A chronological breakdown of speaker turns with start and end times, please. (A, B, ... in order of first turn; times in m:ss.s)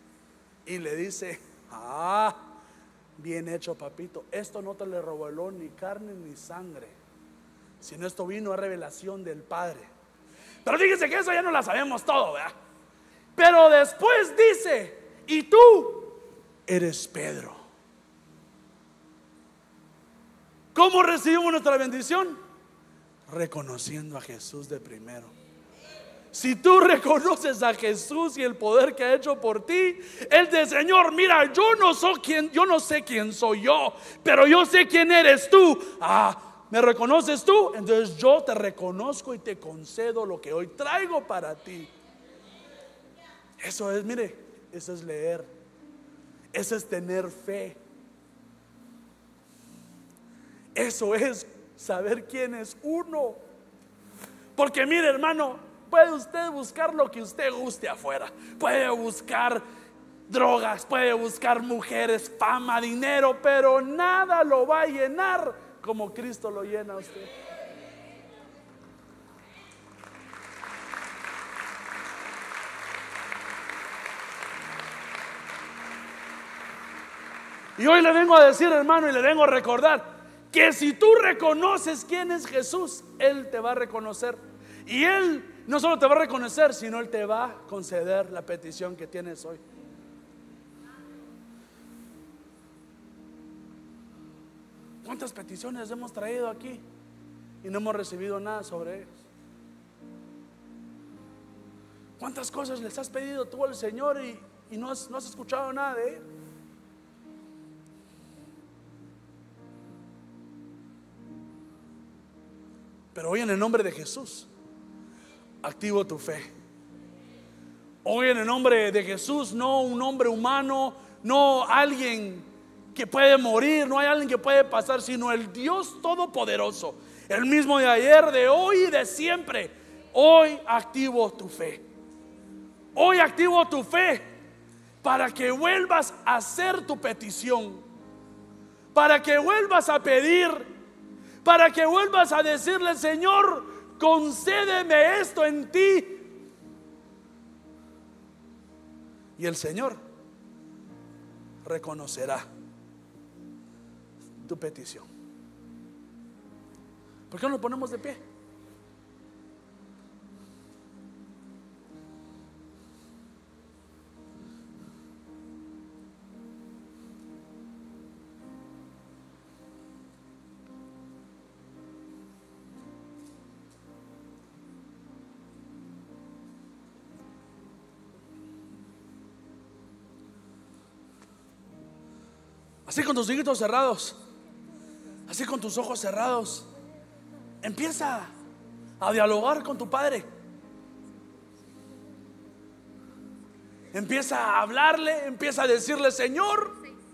0:00.7-0:02.4 A
0:03.2-0:07.0 A
0:07.8-0:09.9 A
0:10.6-0:12.6 A
0:13.4-0:17.6 A
0:20.7-0:22.4 A
0:23.3-0:25.3 A
0:26.3-0:41.9 A
0:43.6-0:45.5 A
0:46.5-0:47.8 A
0:50.7-0:53.4 A
0:54.6-0:59.6 A
1:00.3-1:07.3 A
1:17.8-1:29.6 A
1:35.0-1:36.8 A
1:37.6-1:39.2 A
1:42.2-1:46.2 A
1:53.1-1:54.5 A
1:55.6-1:56.5 A
1:58.0-2:11.8 A
2:13.0-2:14.3 A
2:15.0-2:17.8 A
2:18.9-2:20.7 A
2:21.4-2:26.3 A
2:29.4-2:30.0 A
2:31.6-2:32.5 A
2:34.4-2:35.1 A
2:37.3-2:38.2 A
3:02.9-3:04.2 A
3:05.3-3:06.7 A
3:07.6-3:08.3 A
3:09.0-3:10.3 A
3:13.9-3:16.8 A